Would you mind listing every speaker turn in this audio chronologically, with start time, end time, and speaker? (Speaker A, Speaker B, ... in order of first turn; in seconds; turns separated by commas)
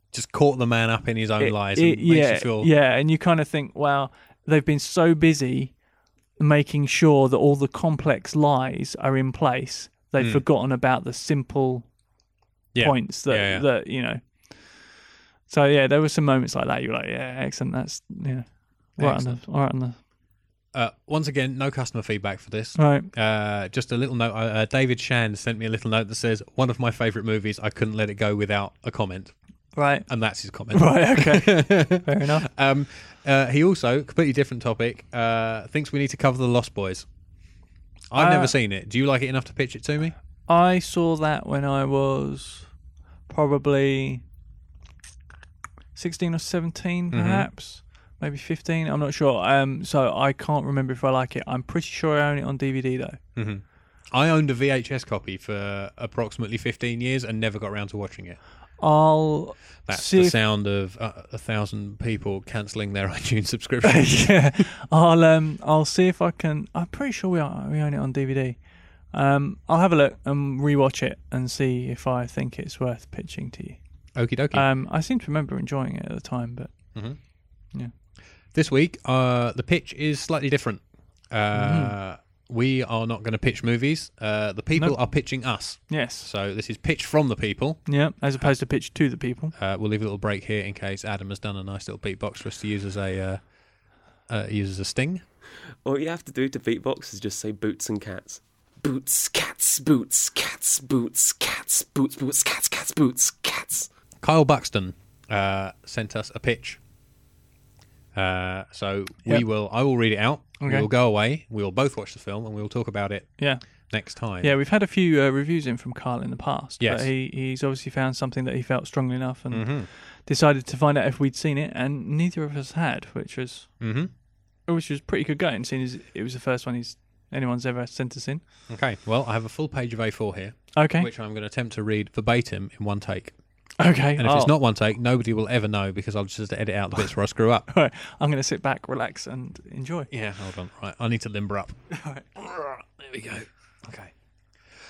Speaker A: 0.1-2.7, Speaker B: 1.4-5.7, Speaker B: 6.4-11.9, Speaker A: 10.2-10.4, Speaker A: 12.7-13.7, Speaker B: 12.8-14.7, Speaker B: 15.5-20.0, Speaker A: 19.0-19.4, Speaker A: 20.7-29.3, Speaker B: 22.8-23.1, Speaker B: 29.7-30.1, Speaker A: 30.1-37.0, Speaker B: 30.7-32.5, Speaker A: 38.1-40.1, Speaker B: 38.1-38.5, Speaker B: 40.5-42.7, Speaker B: 43.3-44.2, Speaker B: 45.9-53.2, Speaker A: 47.1-47.5, Speaker A: 53.4-58.4, Speaker B: 58.8-60.4, Speaker A: 59.9-64.6, Speaker B: 63.8-68.6, Speaker B: 69.1-73.8, Speaker A: 74.1-74.7, Speaker B: 74.5-76.7, Speaker A: 78.5-87.8, Speaker B: 81.5-81.9, Speaker B: 85.9-86.3, Speaker B: 87.8-89.5, Speaker A: 89.5-93.4, Speaker A: 94.3-95.2, Speaker C: 95.8-103.9, Speaker A: 104.2-106.8, Speaker A: 108.1-114.5, Speaker B: 110.6-110.9, Speaker B: 114.4-123.7, Speaker A: 116.8-117.1, Speaker A: 119.5-119.9, Speaker A: 123.8-124.1, Speaker B: 124.7-128.4, Speaker A: 128.7-133.3, Speaker B: 130.8-131.1, Speaker B: 133.8-134.5, Speaker A: 134.2-137.7, Speaker B: 137.7-140.1, Speaker A: 140.1-141.8, Speaker B: 141.9-142.2, Speaker A: 142.3-144.1